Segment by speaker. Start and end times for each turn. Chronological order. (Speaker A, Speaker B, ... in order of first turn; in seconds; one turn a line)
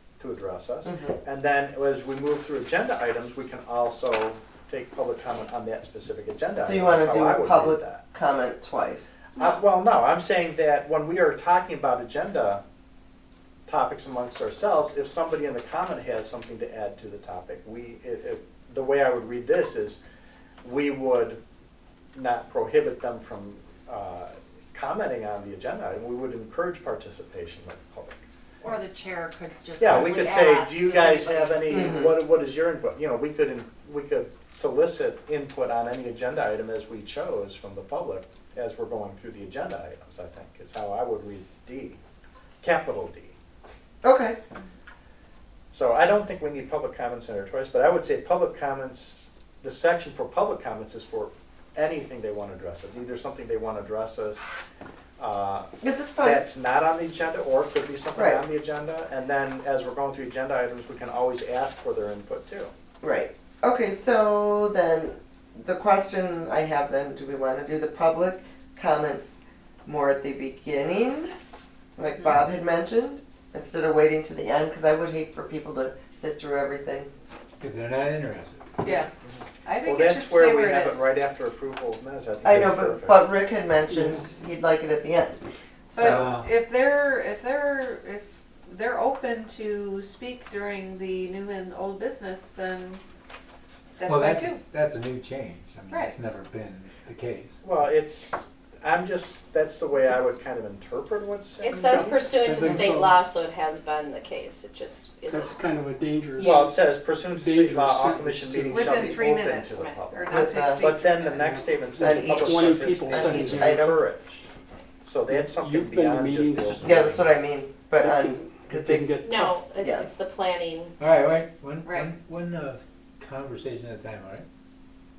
Speaker A: 0.2-8.0
Speaker B: 0.8-1.2
Speaker B: 6.6-9.2
Speaker A: 9.4-12.6
Speaker A: 13.7-20.0
Speaker A: 20.6-21.4
Speaker A: 22.1-28.2
Speaker C: 28.6-32.0
Speaker A: 29.8-42.0
Speaker B: 31.7-32.1
Speaker A: 42.6-43.4
Speaker B: 44.0-44.4
Speaker A: 45.7-54.5
Speaker A: 55.2-55.7
Speaker B: 55.8-56.4
Speaker A: 56.2-62.7
Speaker B: 58.1-58.4
Speaker B: 63.0-71.3
Speaker B: 72.0-77.1
Speaker D: 77.6-78.7
Speaker E: 78.8-79.1
Speaker A: 79.2-83.2
Speaker E: 79.6-81.2
Speaker B: 82.4-85.4
Speaker F: 83.9-84.2
Speaker E: 85.9-93.0
Speaker B: 85.9-86.3
Speaker D: 86.0-86.5
Speaker E: 94.0-94.6
Speaker D: 94.0-97.6
Speaker E: 95.9-96.2
Speaker A: 97.6-102.2
Speaker G: 101.6-105.5
Speaker F: 102.4-103.2
Speaker F: 105.3-109.2
Speaker G: 106.4-106.7
Speaker A: 106.4-114.5
Speaker E: 108.7-111.6
Speaker B: 110.3-110.9
Speaker F: 111.4-114.0
Speaker B: 112.0-114.0
Speaker A: 115.0-117.3
Speaker F: 115.3-117.2
Speaker B: 116.8-119.2
Speaker F: 118.0-119.6
Speaker G: 119.2-121.0
Speaker B: 119.8-120.1
Speaker D: 121.0-124.5
Speaker E: 121.8-122.1